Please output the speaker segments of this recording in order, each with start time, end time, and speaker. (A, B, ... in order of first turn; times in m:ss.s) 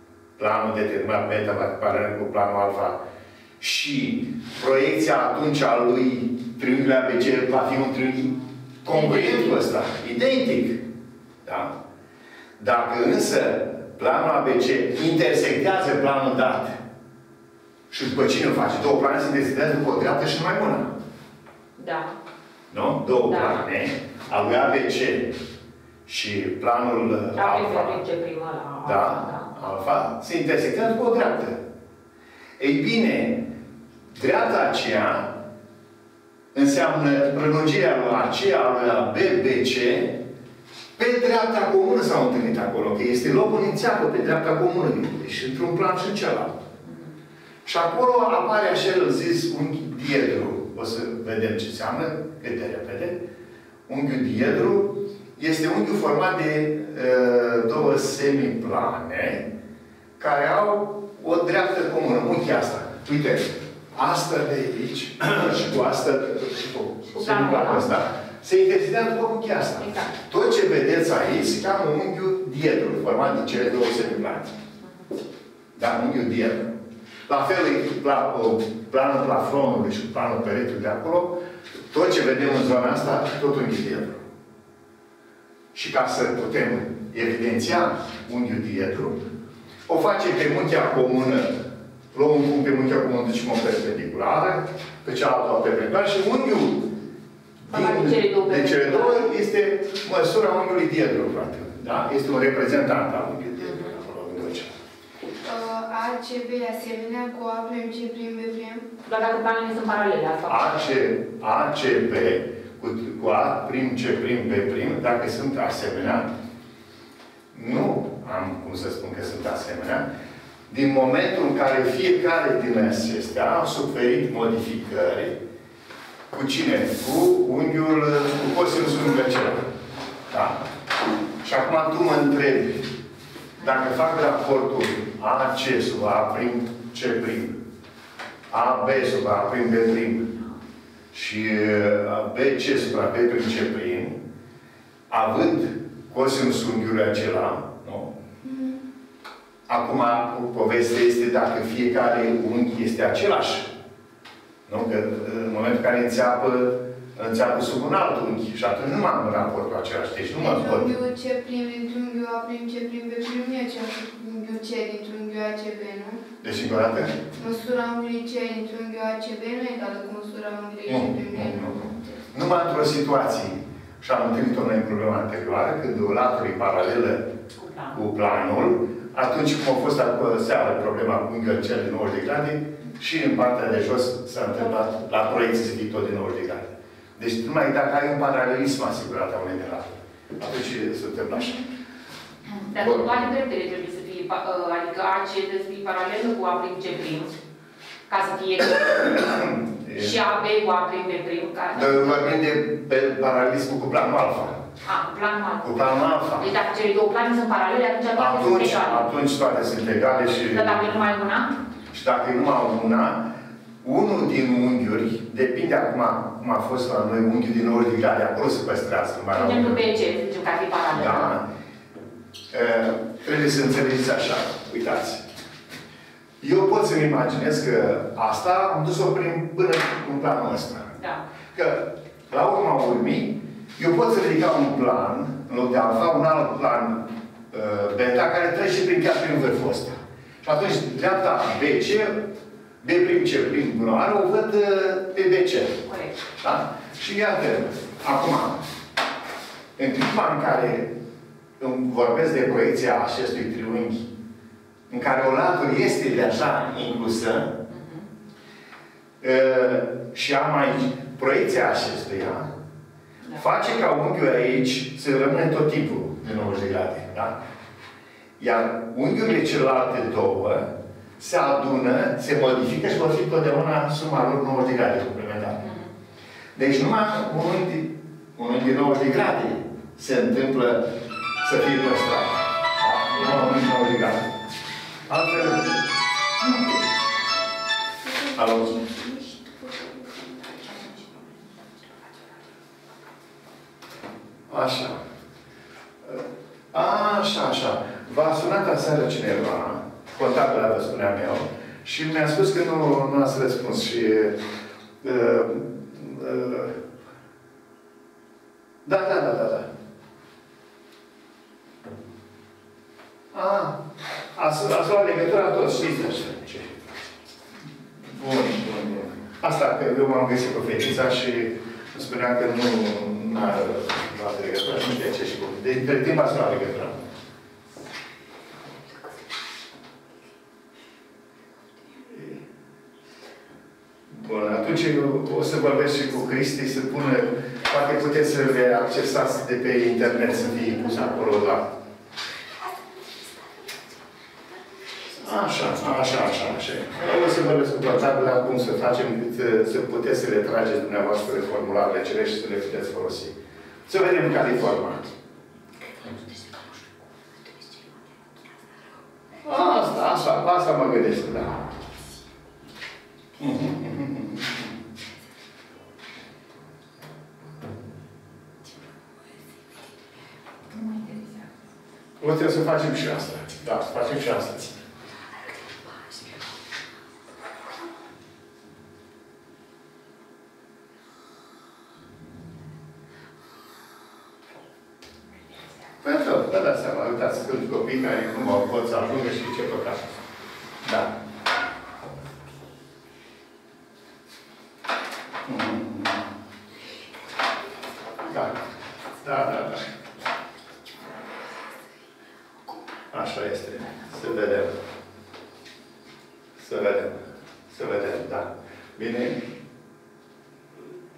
0:00.4-0:03.0 A
0:03.6-0:10.8 A
0:08.9-0:09.6 B
0:11.4-0:11.7 A
0:12.6-0:16.8 A
0:17.9-0:20.9 A
0:21.8-0:22.1 B
0:22.7-0:25.4 A
0:23.3-0:23.6 B
0:26.0-0:28.0 A
0:27.4-0:29.5 B
0:28.8-0:31.6 A
0:32.6-0:33.5 A
0:34.1-0:35.4 A
0:36.5-0:40.2 A
0:41.0-0:46.6 A
0:47.6-0:53.2 A
0:53.9-0:59.5 A
1:00.2-1:14.5 A
1:07.1-1:07.9 B
1:09.8-1:10.1 B
1:15.8-1:16.7 A
1:17.3-1:24.2 A
1:25.7-1:29.2 A
1:29.9-1:31.6 A
1:32.1-1:36.9 A
1:37.6-1:44.7 A
1:37.7-1:39.3 B
1:43.6-1:43.9 B
1:45.4-1:48.9 C
1:49.0-1:50.8 B
1:50.5-1:56.3 A
1:57.5-2:00.1 A
2:00.7-2:05.4 A
2:06.3-2:09.7 A
2:10.3-2:10.6 A
2:11.4-2:12.9 A
2:13.6-2:17.6 A
2:18.5-2:20.3 A
2:21.1-2:24.2 A
2:25.1-2:28.1 A
2:28.4-2:28.8 C
2:29.7-2:33.7 A
2:34.7-2:40.9 A
2:40.4-2:46.2 C
2:46.4-2:47.2 A
2:47.4-2:52.2 C
2:50.9-2:57.3 A
2:57.6-2:58.0 B
2:57.9-3:11.7 A
3:12.5-3:17.3 B
3:12.8-3:13.2 A
3:18.1-3:19.4 B
3:18.9-3:20.2 A
3:19.9-3:22.3 B
3:21.7-3:24.6 A
3:24.8-3:25.9 B
3:25.6-3:26.5 A
3:26.4-3:29.0 B
3:28.1-3:30.9 A
3:30.5-3:31.6 B
3:31.9-3:33.3 A
3:33.8-3:39.8 A
3:39.3-3:41.3 B
3:40.9-3:41.5 A
3:42.5-3:45.2 A
3:46.4-3:50.9 A
3:51.5-4:02.3 A
4:02.8-4:08.6 A
4:05.8-4:06.1 B
4:09.8-4:10.9 A
4:11.6-4:14.1 A
4:14.9-4:17.6 A
4:17.7-4:18.1 B
4:19.2-4:22.5 A
4:23.4-4:27.4 A
4:28.4-4:35.6 A
4:35.6-4:35.9 B
4:36.5-4:44.3 A
4:43.1-4:43.6 B
4:45.1-4:45.8 A
4:46.4-4:46.8 A
4:48.0-4:50.6 C
4:48.3-4:48.8 A
4:50.7-4:51.0 B
4:54.5-4:55.0 A
4:56.0-5:04.4 A
5:05.0-5:06.8 A
5:08.8-5:09.7 A
5:13.3-5:13.8 A
5:14.3-5:16.8 A
5:18.0-5:27.0 A
5:32.1-5:32.4 A
5:34.1-5:41.7 A
5:45.1-5:53.4 A
5:53.9-5:55.1 A
5:59.4-6:01.6 A
6:03.4-6:04.8 A
6:10.7-6:11.4 B
6:12.2-6:14.8 A
6:26.0-6:30.1 A
6:30.8-6:31.2 A
6:35.4-6:36.3 A
6:38.2-6:38.6 A
6:39.2-6:40.0 A
6:43.1-6:44.8 A
6:46.6-6:49.4 A